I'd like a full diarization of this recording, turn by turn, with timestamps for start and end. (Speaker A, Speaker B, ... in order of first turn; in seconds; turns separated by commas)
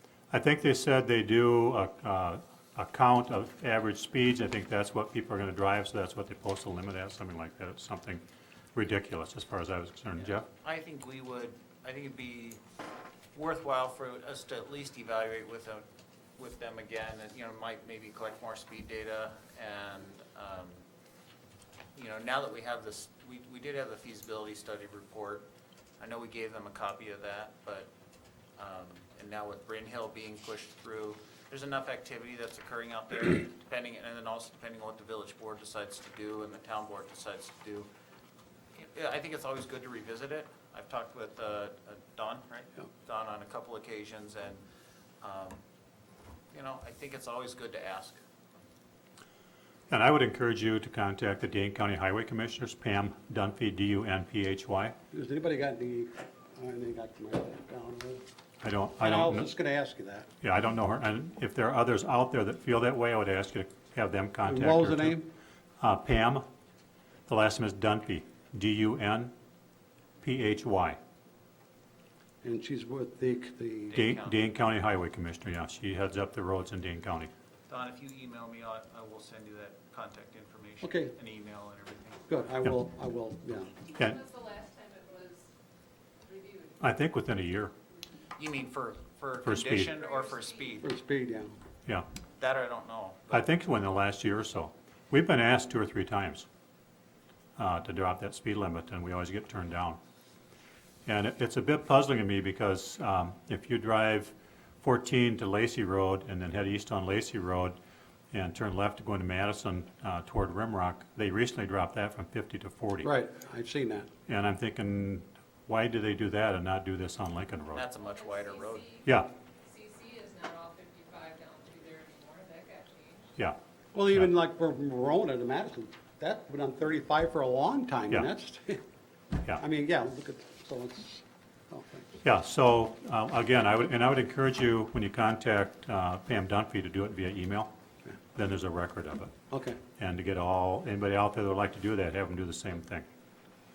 Speaker A: 0.3-8.2, Speaker A: 8.7-10.5, Speaker B: 10.1-12.6, Speaker B: 13.3-15.8, Speaker B: 16.4-20.8, Speaker B: 21.9-27.9, Speaker B: 28.6-37.9, Speaker B: 38.7-44.6, Speaker B: 45.2-45.6, Speaker B: 46.5-48.2, Speaker A: 49.9-55.0, Speaker C: 55.1-58.2, Speaker A: 58.6-59.5, Speaker C: 59.0-60.2, Speaker A: 60.4-65.2, Speaker C: 64.7-65.1, Speaker A: 65.8-66.5, Speaker A: 67.3-69.3, Speaker A: 70.2-71.0, Speaker C: 72.4-73.9, Speaker B: 73.9-74.5, Speaker A: 73.9-77.3, Speaker B: 77.7-82.4, Speaker C: 80.8-81.1, Speaker C: 82.3-83.7, Speaker D: 83.9-85.5, Speaker D: 86.2-86.8, Speaker A: 86.8-87.7, Speaker B: 88.4-90.8, Speaker A: 89.4-89.9, Speaker D: 89.8-90.9, Speaker C: 91.1-91.5, Speaker B: 92.4-93.5, Speaker A: 93.3-96.5, Speaker A: 97.6-100.0, Speaker A: 101.0-107.8, Speaker A: 108.3-113.1, Speaker C: 113.2-114.0, Speaker A: 114.3-117.9, Speaker B: 117.7-118.9, Speaker D: 118.0-123.3, Speaker C: 123.9-128.8, Speaker C: 129.6-132.1, Speaker A: 132.2-137.7, Speaker A: 138.3-139.3, Speaker C: 139.5-139.8, Speaker A: 140.0-143.1